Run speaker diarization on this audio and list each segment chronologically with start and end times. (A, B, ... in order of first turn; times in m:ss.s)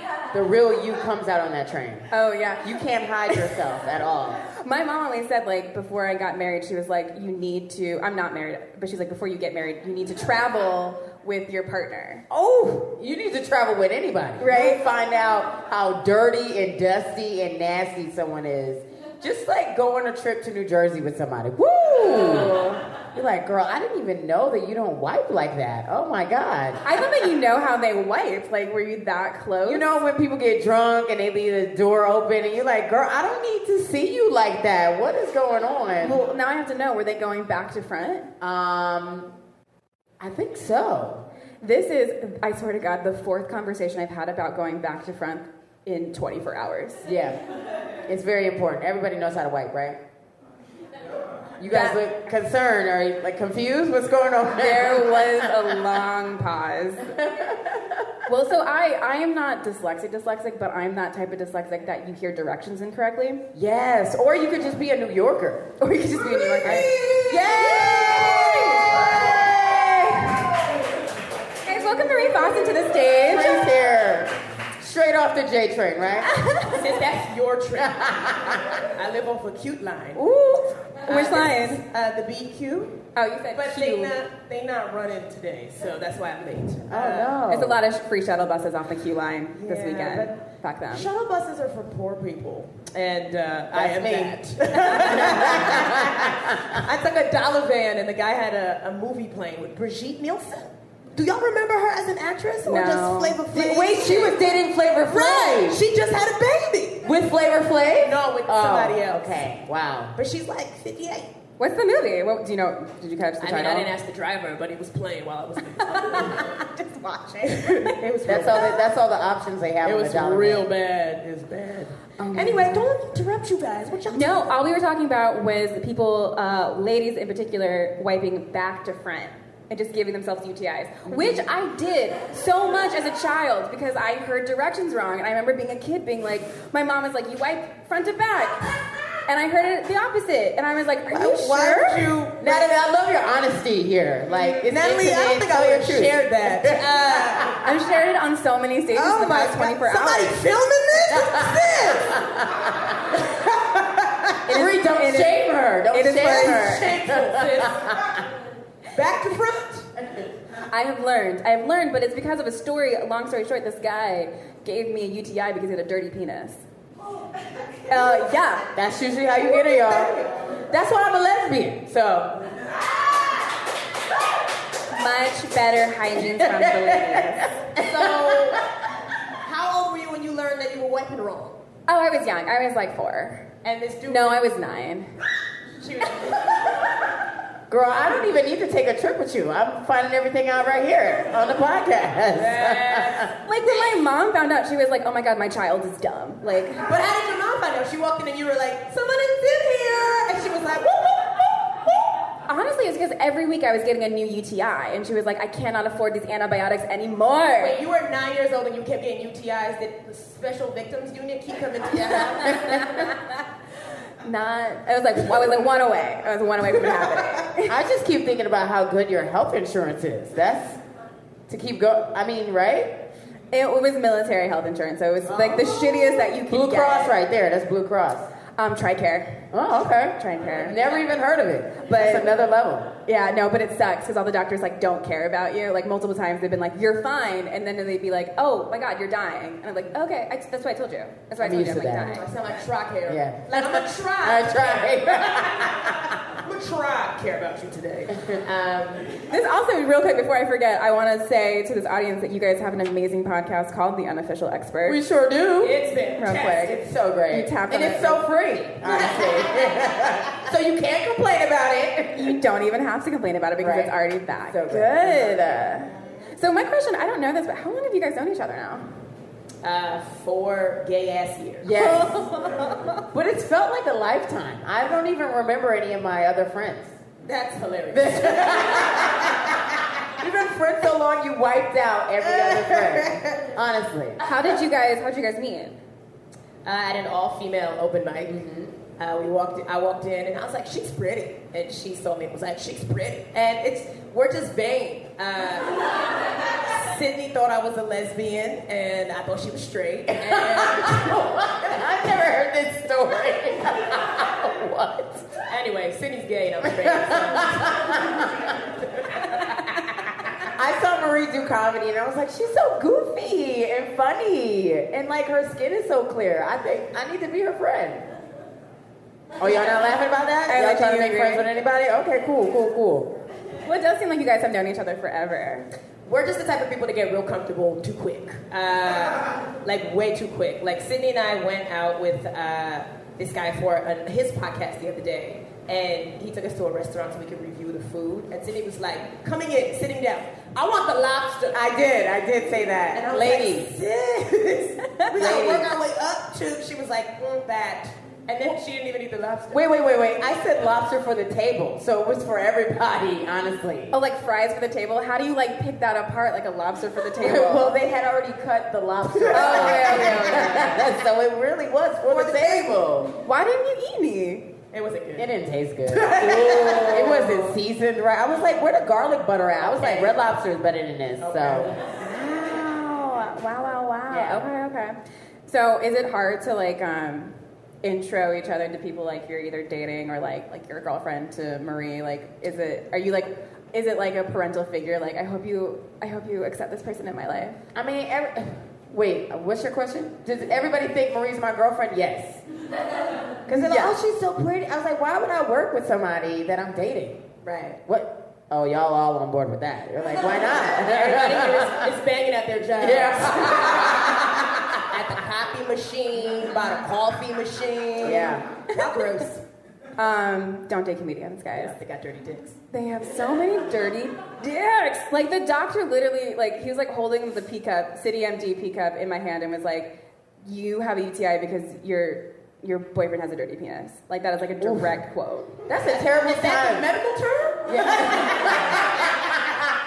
0:00.3-0:02.1 A
0:02.1-0:02.8 B
0:02.6-0:04.5 A
0:04.6-0:12.2 B
0:12.3-0:26.8 A
0:14.4-0:14.8 B
0:22.0-0:22.8 B
0:26.8-0:29.9 B
0:29.6-0:36.2 A
0:36.0-0:38.3 B
0:38.4-0:39.3 A
0:40.2-0:41.3 A
0:41.6-0:47.0 B
0:47.0-0:47.4 A
0:48.0-0:50.0 A
0:51.6-0:55.8 A
0:51.7-0:52.0 B
0:54.6-0:57.1 B
0:57.0-0:58.1 A
0:58.3-1:03.4 B
1:03.5-1:05.7 A
1:05.8-1:07.3 B
1:06.6-1:10.6 A
1:06.6-1:09.3 C
1:11.6-1:13.7 B
1:13.3-1:16.4 A
1:16.2-1:16.8 B
1:16.7-1:20.2 C
1:17.8-1:18.8 A
1:20.2-1:21.8 B
1:21.0-1:23.0 C
1:23.2-1:24.1 B
1:23.5-1:27.4 C
1:26.9-1:27.8 A
1:27.5-1:31.1 B
1:29.5-1:44.4 C
1:33.7-1:36.8 A
1:42.7-1:43.4 B
1:43.5-1:45.8 A
1:45.1-1:47.1 C
1:47.0-1:50.2 A
1:48.0-1:49.4 C
1:50.2-1:51.3 C
1:51.6-1:53.9 B
1:53.4-1:58.7 C
1:56.0-1:56.5 B
1:58.2-2:00.7 A
1:59.8-2:04.6 C
2:02.2-2:02.9 B
2:04.1-2:18.7 B
2:19.3-2:22.1 B
2:21.1-2:22.7 C
2:22.4-2:27.6 A
2:24.3-2:27.6 C
2:27.6-2:30.4 B
2:28.9-2:32.3 C
2:31.2-2:33.0 A
2:33.2-2:34.3 C
2:34.5-2:35.4 B
2:34.5-2:38.1 A
2:35.9-2:36.9 B
2:36.2-2:38.2 C
2:38.9-2:39.9 C
2:40.7-2:46.6 B
2:47.9-2:48.7 B
2:48.7-2:50.2 A
2:49.4-2:50.3 C
2:50.7-2:52.4 A
2:54.9-2:57.6 B
2:57.7-2:58.7 C
2:57.8-2:58.6 A
2:59.4-3:01.6 C
3:01.9-3:03.5 B
3:03.6-3:04.4 C
3:04.0-3:05.1 B
3:05.8-3:06.8 C
3:07.7-3:13.3 A
3:12.3-3:13.9 C
3:13.4-3:16.8 B
3:16.8-3:22.0 C
3:22.5-3:27.8 B
3:27.6-3:33.2 C
3:32.5-3:32.8 B
3:34.2-3:37.8 B
3:37.6-3:40.8 A
3:41.5-3:43.0 A
3:43.5-3:47.2 B
3:46.5-3:48.3 A
3:48.6-3:49.5 B
3:49.5-3:52.9 A
3:50.2-3:50.9 B
3:51.9-3:52.3 B
3:53.0-4:02.2 B
4:01.4-4:02.2 A
4:02.1-4:05.8 C
4:03.1-4:06.2 A
4:06.4-4:09.2 C
4:09.3-4:15.0 B
4:14.8-4:15.8 A
4:15.6-4:16.8 C
4:16.2-4:18.2 B
4:16.6-4:22.4 A
4:18.8-4:20.2 C
4:22.1-4:28.9 B
4:23.6-4:23.9 A
4:24.5-4:25.6 A
4:29.6-4:31.7 C
4:31.6-4:32.3 A
4:31.8-4:32.9 B
4:33.1-4:37.0 A
4:37.2-4:39.5 C
4:37.9-4:39.5 A
4:40.2-4:44.2 A
4:42.2-4:43.4 C
4:44.2-4:45.8 B
4:46.6-4:48.4 C
4:48.2-4:48.8 A
4:49.0-5:01.2 C
5:00.1-5:05.4 A
5:05.5-5:08.0 C
5:06.6-5:08.5 A
5:10.4-5:18.1 A
5:19.4-5:23.2 A
5:20.5-5:21.4 B
5:23.6-5:25.7 B
5:26.0-5:41.8 C
5:41.5-5:43.8 A
5:42.9-5:49.6 C
5:45.0-5:45.6 B
5:45.1-5:45.7 A
5:49.5-5:53.9 A
5:53.9-5:57.8 B
5:57.2-6:03.1 A
5:59.1-6:00.8 C
5:59.3-6:00.9 B
6:02.0-6:02.9 C
6:03.2-6:04.5 B
6:04.7-6:05.3 C
6:05.2-6:11.7 A
6:05.9-6:07.4 C
6:09.6-6:10.2 C
6:11.2-6:11.8 C
6:11.9-6:27.6 B
6:14.1-6:14.5 A
6:27.8-6:32.4 A
6:33.5-6:37.3 A
6:33.5-6:33.9 B
6:37.4-6:37.8 C
6:37.9-6:41.9 A
6:40.8-6:44.2 C
6:42.8-6:44.7 A
6:44.8-6:49.4 C
6:48.0-6:48.5 A
6:50.0-6:51.7 B
6:51.5-6:52.6 C
6:52.7-7:05.6 B
7:04.6-7:04.9 A
7:05.7-7:06.9 A
7:05.9-7:08.8 C
7:07.6-7:09.6 A